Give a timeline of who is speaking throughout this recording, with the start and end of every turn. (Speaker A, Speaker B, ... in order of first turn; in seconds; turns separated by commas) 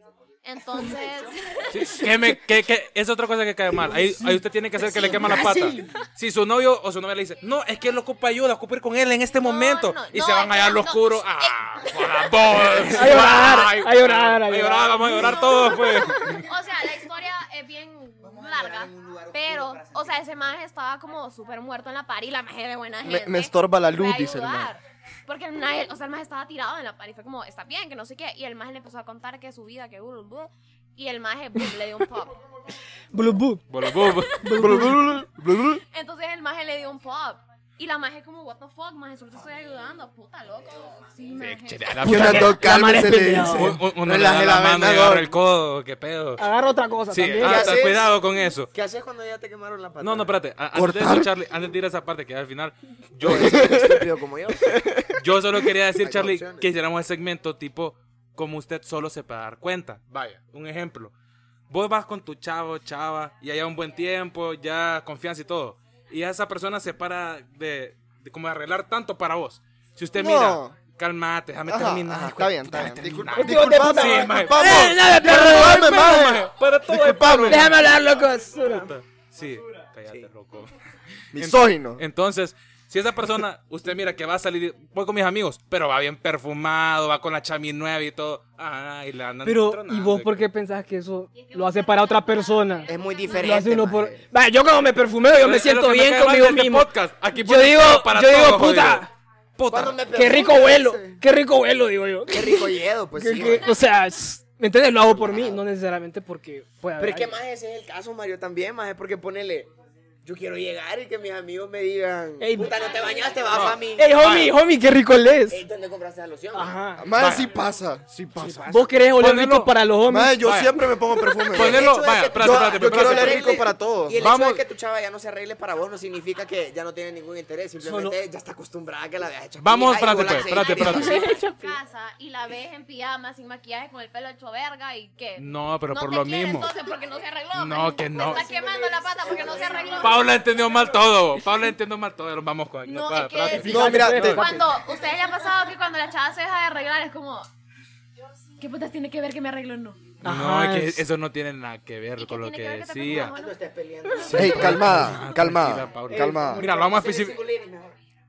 Speaker A: 0.4-1.9, Speaker B: 1.7-16.4, Speaker C: 4.8-5.8, Speaker D: 5.3-5.8, Speaker A: 9.4-12.9, Speaker C: 12.8-13.3, Speaker D: 12.9-15.4, Speaker A: 15.1-32.4, Speaker C: 18.2-20.3, Speaker E: 23.0-24.7, Speaker D: 33.1-35.2, Speaker B: 33.7-34.8, Speaker E: 34.5-35.8, Speaker A: 35.9-42.2, Speaker B: 41.4-42.7, Speaker D: 42.0-43.8, Speaker E: 42.0-45.3, Speaker B: 43.5-46.4, Speaker D: 46.4-47.8, Speaker B: 47.1-48.7, Speaker C: 47.4-48.1, Speaker C: 48.7-50.3, Speaker B: 50.0-53.9, Speaker E: 50.7-51.3, Speaker C: 53.2-54.8, Speaker E: 53.3-54.0, Speaker E: 54.6-55.2, Speaker B: 55.2-61.1, Speaker C: 56.0-56.7, Speaker B: 61.7-78.0, Speaker E: 70.2-70.8, Speaker E: 71.7-77.7, Speaker D: 73.3-76.2, Speaker D: 77.4-78.9, Speaker B: 78.5-80.7, Speaker E: 81.3-82.0, Speaker B: 81.3-90.5, Speaker D: 89.4-99.1, Speaker A: 91.4-93.6, Speaker C: 92.9-94.2, Speaker B: 95.4-100.0, Speaker C: 99.7-101.2, Speaker D: 100.1-107.3, Speaker C: 102.3-103.8, Speaker C: 105.2-105.6, Speaker C: 107.0-109.7, Speaker C: 110.2-114.1, Speaker D: 112.4-112.7, Speaker B: 113.5-114.5, Speaker D: 113.9-115.6, Speaker C: 115.5-116.8, Speaker D: 116.5-117.1, Speaker E: 117.0-118.9, Speaker B: 117.2-117.5, Speaker C: 118.4-118.8, Speaker D: 118.4-120.4, Speaker B: 119.2-119.7, Speaker E: 120.1-121.9, Speaker B: 120.4-120.8, Speaker B: 121.5-123.6, Speaker C: 121.5-131.5, Speaker E: 122.4-124.2, Speaker B: 124.2-124.6, Speaker D: 127.8-128.2, Speaker B: 129.6-131.4, Speaker A: 130.5-140.3, Speaker B: 135.4-136.7, Speaker B: 137.5-138.5, Speaker C: 138.1-140.3, Speaker B: 140.0-144.3, Speaker A: 142.8-147.5, Speaker D: 143.5-144.8, Speaker E: 143.5-144.5, Speaker A: 148.6-150.0, Speaker D: 150.2-151.0, Speaker B: 150.2-153.3, Speaker A: 152.2-153.6, Speaker C: 153.0-155.2, Speaker B: 154.2-157.4, Speaker E: 154.2-156.7, Speaker C: 156.1-158.0, Speaker D: 156.2-156.6